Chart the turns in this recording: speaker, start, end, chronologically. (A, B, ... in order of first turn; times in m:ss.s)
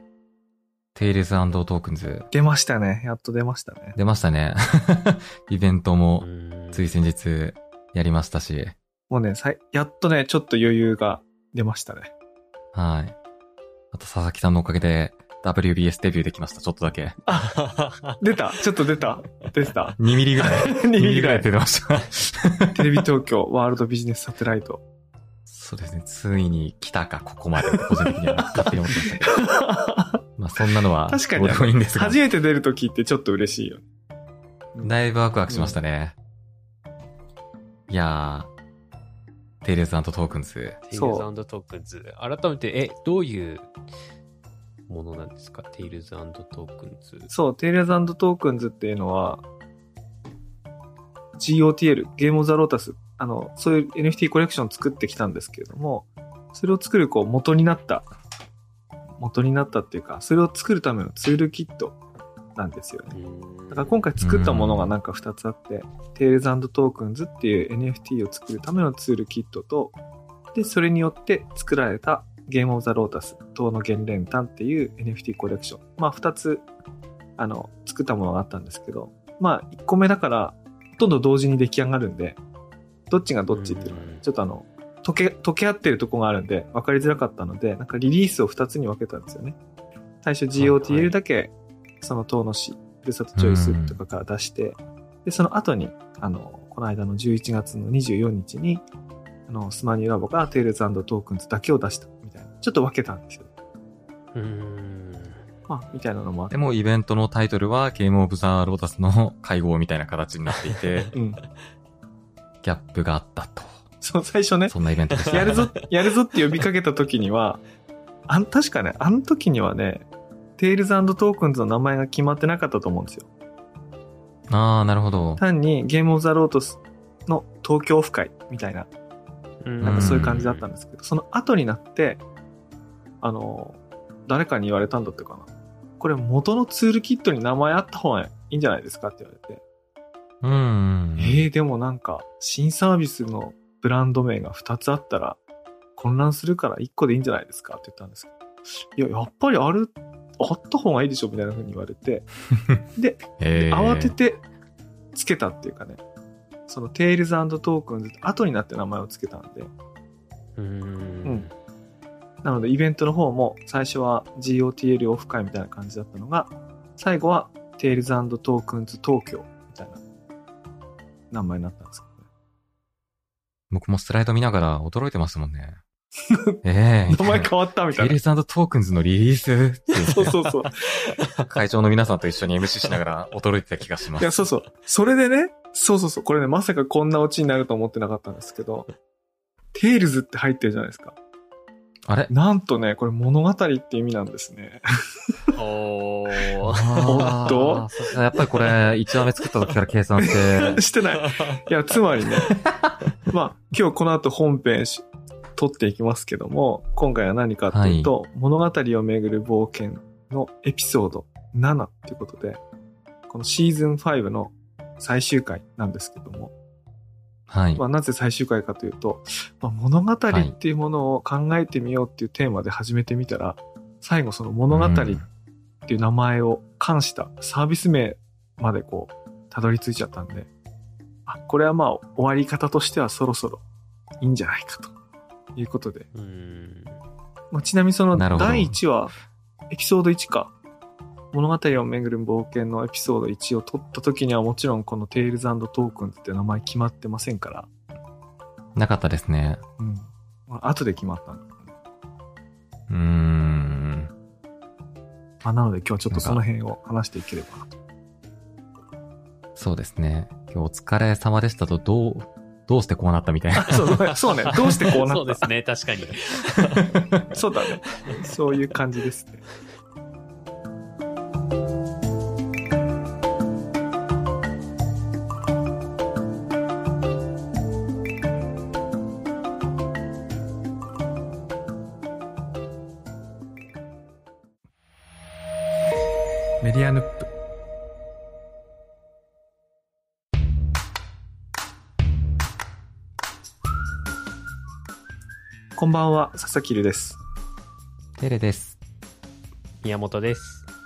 0:00.9-0:02.3 A
0:02.3-0:04.0 B
0:04.0-0:08.8 A
0:06.2-0:06.9 C
0:09.1-0:12.1 B
0:12.7-0:13.2 A
0:13.9-0:17.2 A
0:17.2-0:17.6 B
0:17.5-0:18.1 C
0:18.2-0:21.5 B
0:20.0-0:22.7 A
0:22.7-0:24.8 B
0:25.5-0:29.4 A
0:28.5-0:30.2 B
0:30.4-0:32.2 A
0:31.1-0:33.8 B
0:34.8-0:36.2 A
0:35.5-0:35.8 B
0:37.9-0:38.5 A
0:39.6-0:40.8 A
0:40.8-0:43.7 C
0:40.9-0:41.3 B
0:44.9-0:47.3 C
0:47.3-0:49.4 B
0:51.4-0:58.0 B
0:59.2-1:02.0 B
1:02.6-1:03.2 B
1:03.1-1:04.0 C
1:03.7-1:09.9 B
1:04.2-1:04.9 A
1:10.5-1:16.7 B
1:17.4-1:22.4 B
1:23.1-1:29.6 B
1:23.5-1:24.2 C
1:30.2-1:38.8 B
1:30.5-1:31.2 C
1:33.4-1:34.0 A
1:39.5-1:43.5 B
1:44.3-1:45.5 C
1:45.7-1:46.6 B
1:46.5-1:51.1 A
1:50.8-1:51.1 C
1:51.1-1:51.4 B
1:52.6-1:53.8 A
1:54.0-1:54.7 B
1:54.7-1:55.7 A
1:55.2-1:55.6 C
1:55.3-1:57.6 B
1:58.3-2:03.3 B
2:04.5-2:05.4 A
2:05.4-2:08.9 B
2:09.6-2:10.7 C
2:09.8-2:12.2 B
2:09.8-2:10.4 A
2:13.2-2:19.6 B
2:20.4-2:21.5 A
2:21.2-2:25.4 B
2:26.0-2:28.3 B
2:28.9-2:32.3 B
2:32.9-2:34.4 B
2:33.4-2:34.2 A
2:35.1-2:36.0 B
2:36.7-2:39.7 B
2:40.6-2:41.5 C
2:42.4-2:50.0 B
2:51.3-2:52.2 B
2:53.7-2:55.8 A
2:56.3-2:58.2 B
2:56.6-3:00.4 A
3:00.0-3:00.3 C
3:00.1-3:00.7 B
3:01.4-3:04.5 A
3:04.2-3:08.9 B
3:09.7-3:11.2 B
3:12.3-3:14.8 B
3:15.6-3:19.8 C
3:16.7-3:20.8 A
3:17.0-3:17.8 B
3:20.2-3:22.5 B
3:20.5-3:21.4 C
3:22.7-3:22.9 A
3:23.3-3:32.6 B
3:27.7-3:28.1 A
3:33.3-3:36.5 B
3:37.5-3:37.8 A
3:37.8-3:45.2 B
3:44.7-3:45.2 A
3:45.8-3:50.5 B
3:51.2-3:53.6 B
3:54.2-3:54.9 B
3:55.6-3:56.0 B
3:56.1-3:57.0 C
3:57.5-3:59.1 B
3:58.1-3:58.8 A
3:59.7-4:00.5 B
4:01.3-4:07.7 B
4:08.8-4:09.6 A
4:09.8-4:11.7 B
4:12.9-4:14.1 A
4:15.4-4:17.7 B
4:16.1-4:16.4 A
4:19.6-4:24.0 A
4:23.7-4:25.5 B
4:24.4-4:26.9 C
4:26.7-4:27.2 A
4:27.3-4:29.4 B
4:46.6-4:47.3 B
4:55.8-4:57.2 B
4:58.2-4:58.8 A
4:59.8-5:00.7 C